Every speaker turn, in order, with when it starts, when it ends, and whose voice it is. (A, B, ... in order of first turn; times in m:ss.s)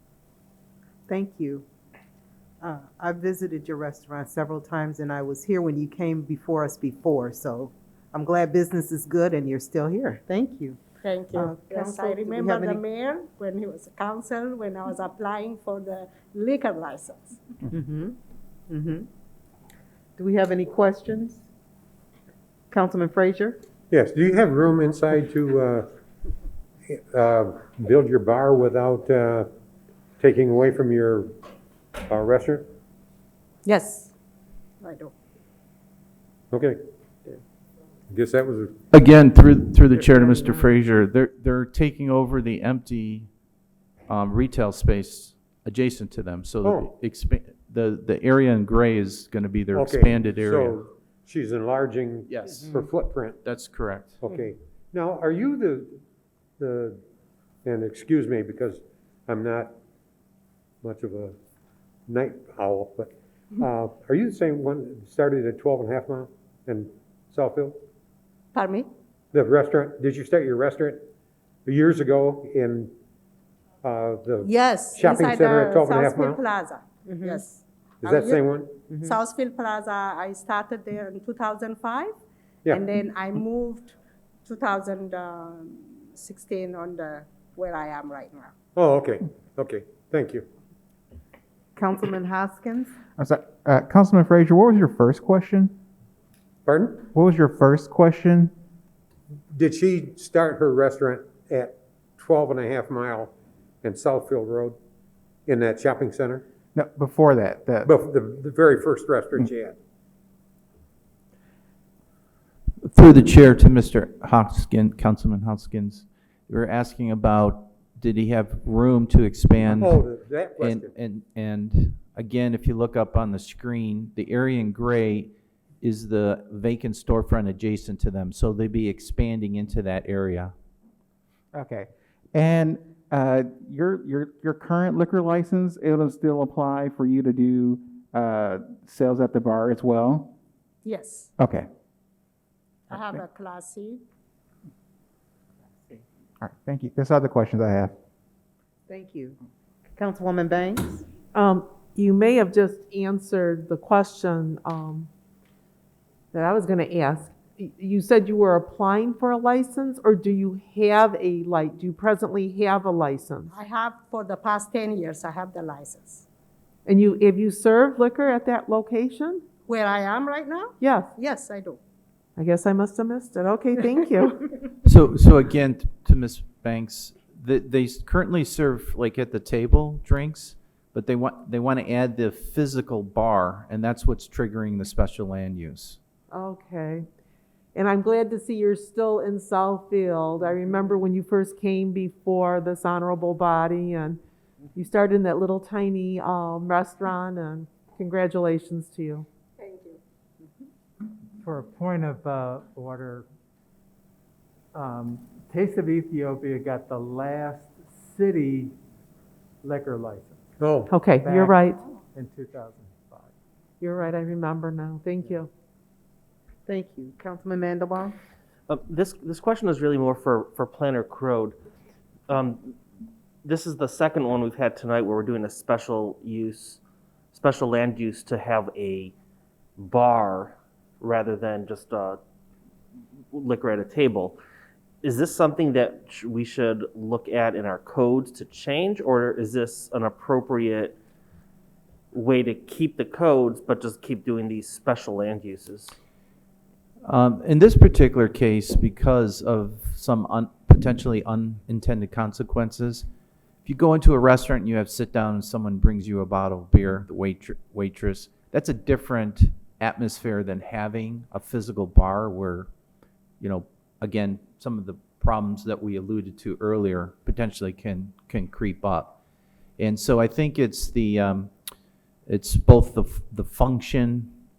0:01.1-0:01.6 A
0:02.6-0:10.8 A
0:11.0-0:17.4 B
0:11.3-0:12.8 A
0:17.7-0:18.2 A
0:18.7-0:19.1 A
0:20.2-0:21.5 A
0:22.7-0:23.6 A
0:23.9-0:25.8 C
0:26.9-0:29.5 C
0:30.2-0:31.3 C
0:32.1-0:32.6 C
0:33.6-0:34.1 B
0:34.8-0:35.1 B
0:36.5-0:36.8 C
0:38.1-0:38.8 C
0:38.9-0:43.3 D
0:40.1-0:40.6 E
0:44.1-0:50.8 D
0:46.6-0:46.9 C
0:49.7-0:53.4 C
0:52.3-0:52.7 D
0:53.4-0:54.2 D
0:54.2-0:56.0 C
0:56.6-0:57.0 C
0:57.6-0:59.7 C
1:00.8-1:01.3 C
1:02.1-1:07.8 C
1:08.5-1:08.9 B
1:09.3-1:11.1 C
1:11.6-1:12.9 C
1:13.8-1:16.4 C
1:14.4-1:18.4 B
1:18.0-1:18.7 C
1:19.0-1:22.1 B
1:22.7-1:28.5 B
1:28.8-1:30.4 C
1:31.8-1:32.9 A
1:33.2-1:35.7 F
1:36.6-1:37.0 C
1:37.1-1:38.5 F
1:39.5-1:43.3 C
1:43.8-1:44.8 C
1:45.4-1:46.4 C
1:46.7-1:47.9 F
1:47.8-1:49.8 C
1:52.8-2:00.0 D
1:59.7-2:00.9 C
2:00.6-2:10.5 D
2:11.5-2:20.3 F
2:20.8-2:21.3 B
2:21.4-2:21.7 F
2:22.9-2:24.0 B
2:26.4-2:27.9 F
2:28.9-2:29.4 A
2:30.0-2:31.0 A
2:31.3-2:35.1 E
2:36.3-2:43.5 E
2:43.5-2:46.2 B
2:46.8-2:49.4 E
2:49.6-2:51.8 B
2:50.8-2:51.1 E
2:52.4-2:54.6 E
2:54.8-3:06.0 D
3:06.3-3:07.0 E
3:07.7-3:14.2 E
3:14.7-3:19.2 E
3:19.6-3:20.0 B
3:21.4-3:23.3 G
3:24.7-3:28.7 G
3:29.6-3:30.4 G
3:30.6-3:31.0 C
3:30.9-3:31.8 E
3:31.1-3:33.3 G
3:33.8-3:35.5 E
3:36.7-3:38.1 A
3:38.7-3:41.6 H
3:42.3-3:42.7 H
3:43.4-3:46.8 H
3:47.3-3:49.1 H
3:49.8-3:52.2 H
3:53.3-3:54.4 H
3:55.0-4:01.0 H
4:02.1-4:05.9 H
4:07.0-4:13.0 D
4:13.6-4:22.7 D
4:23.4-4:29.2 D
4:29.8-4:31.5 D
4:32.3-4:34.3 D